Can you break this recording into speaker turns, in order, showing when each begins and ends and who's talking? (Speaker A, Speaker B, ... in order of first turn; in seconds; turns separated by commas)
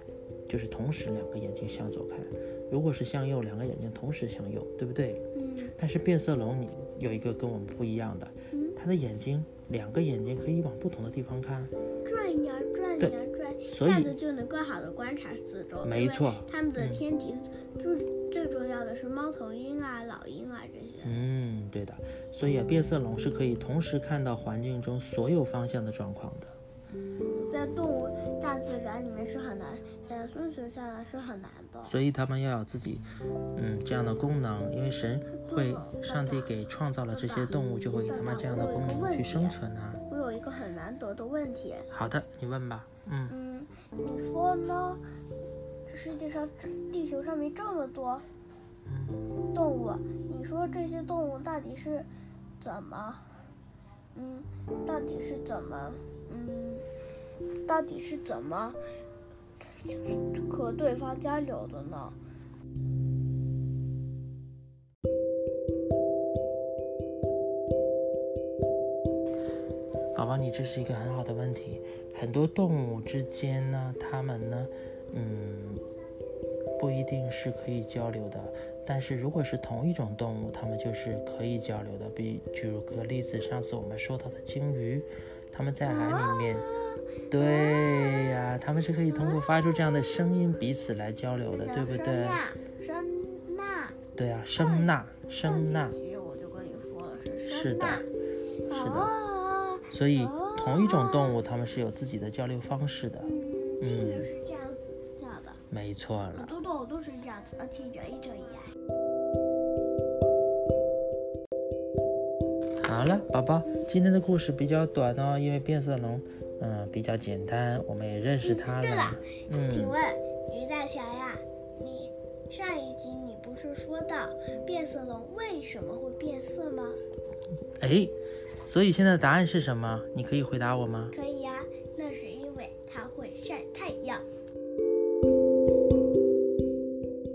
Speaker A: 0.5-5.2, Speaker B: 5.3-5.7, Speaker A: 5.8-11.7, Speaker B: 8.5-8.8, Speaker B: 12.0-21.2, Speaker A: 13.0-14.2, Speaker A: 15.8-17.0, Speaker A: 21.0-26.6, Speaker B: 27.4-32.0, Speaker A: 31.8-40.0, Speaker B: 35.4-36.5, Speaker B: 37.1-39.6, Speaker B: 40.1-41.9, Speaker A: 41.9-43.3, Speaker B: 43.3-45.0, Speaker B: 45.9-48.2, Speaker A: 48.9-49.2, Speaker B: 49.5-52.1, Speaker B: 52.6-53.3, Speaker B: 54.1-56.8, Speaker B: 57.6-58.8, Speaker B: 60.1-62.2, Speaker A: 70.1-75.8, Speaker A: 76.8-86.7, Speaker B: 85.8-88.5, Speaker A: 87.3-92.4, Speaker B: 89.1-89.4, Speaker B: 91.5-94.0, Speaker A: 94.1-96.0, Speaker B: 94.6-98.1, Speaker A: 97.5-98.0, Speaker A: 98.7-99.1, Speaker B: 98.7-101.4, Speaker A: 99.9-104.3, Speaker B: 103.2-105.6, Speaker A: 105.7-106.6, Speaker B: 106.3-108.7, Speaker A: 112.8-120.0, Speaker B: 118.4-127.0, Speaker A: 127.8-128.1, Speaker A: 128.7-131.1, Speaker B: 131.1-134.2